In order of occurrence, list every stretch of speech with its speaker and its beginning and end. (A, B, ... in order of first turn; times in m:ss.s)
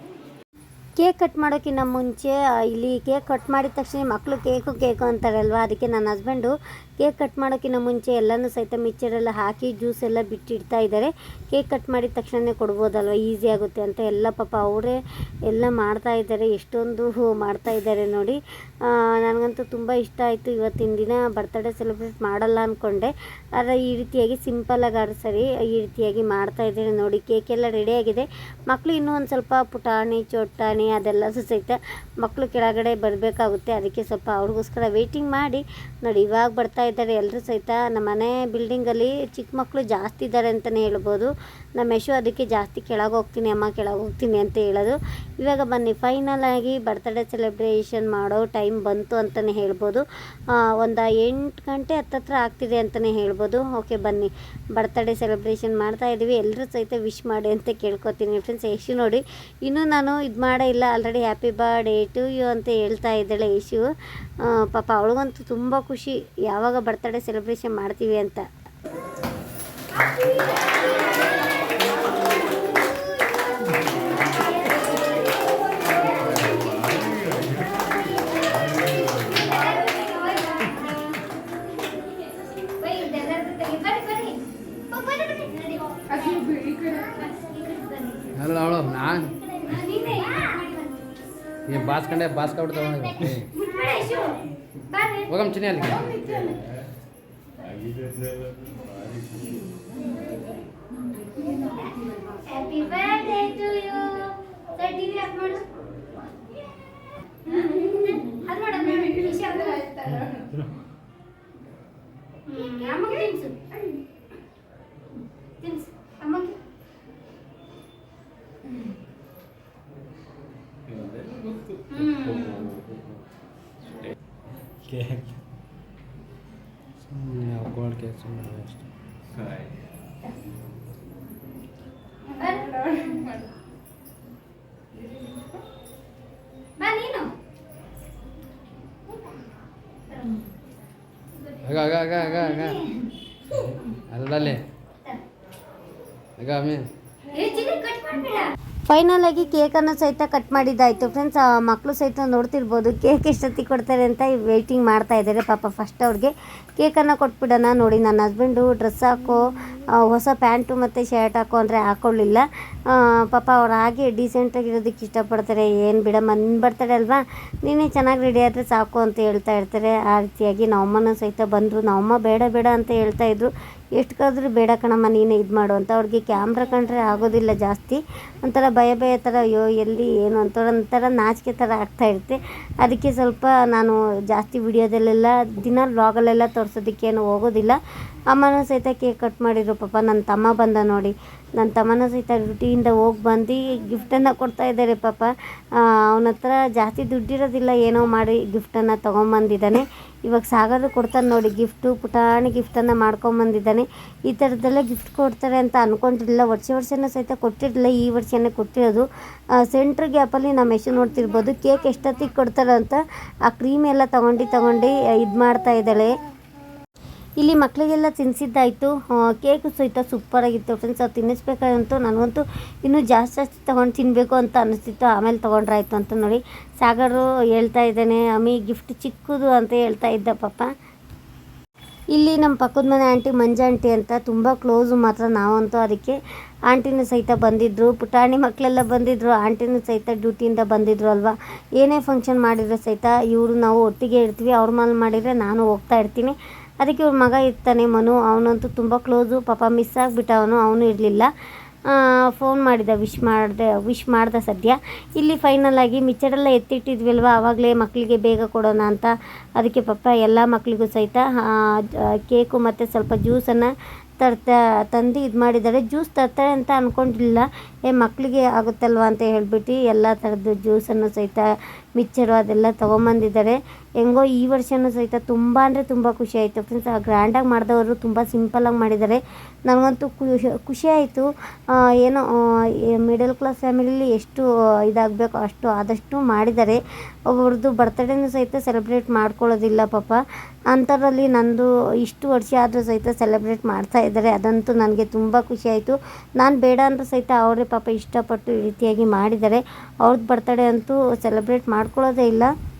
0:01.0-0:50.0 A
0:50.6-1:03.8 A
1:04.4-1:08.4 A
1:14.0-1:21.0 A
1:22.8-1:26.3 A
1:26.9-1:28.3 A
1:28.4-1:29.4 B
1:29.6-1:31.0 A
1:31.7-1:33.5 B
1:33.5-1:35.3 A
1:35.3-1:36.4 B
1:41.7-1:45.7 A
1:47.5-1:50.2 A
1:50.1-1:50.4 B
1:52.5-1:53.7 A
1:55.6-1:56.6 A
2:01.9-2:02.6 A
2:07.0-2:08.8 B
2:12.4-2:13.2 A
2:16.8-2:17.4 A
2:20.1-2:20.5 A
2:21.6-2:22.8 B
2:22.2-2:23.1 A
2:23.5-2:24.6 B
2:26.4-2:26.9 B
2:27.3-2:39.4 A
2:40.0-3:07.8 A
3:08.3-3:15.3 A
3:16.1-3:29.0 A
3:29.6-3:36.1 A
3:37.4-3:50.7 A
3:52.1-3:56.2 A
3:56.7-4:11.3 A
4:11.9-4:31.5 A
4:32.0-4:41.3 A
4:43.0-4:46.8 A
4:47.3-4:50.2 A
4:50.7-5:02.5 A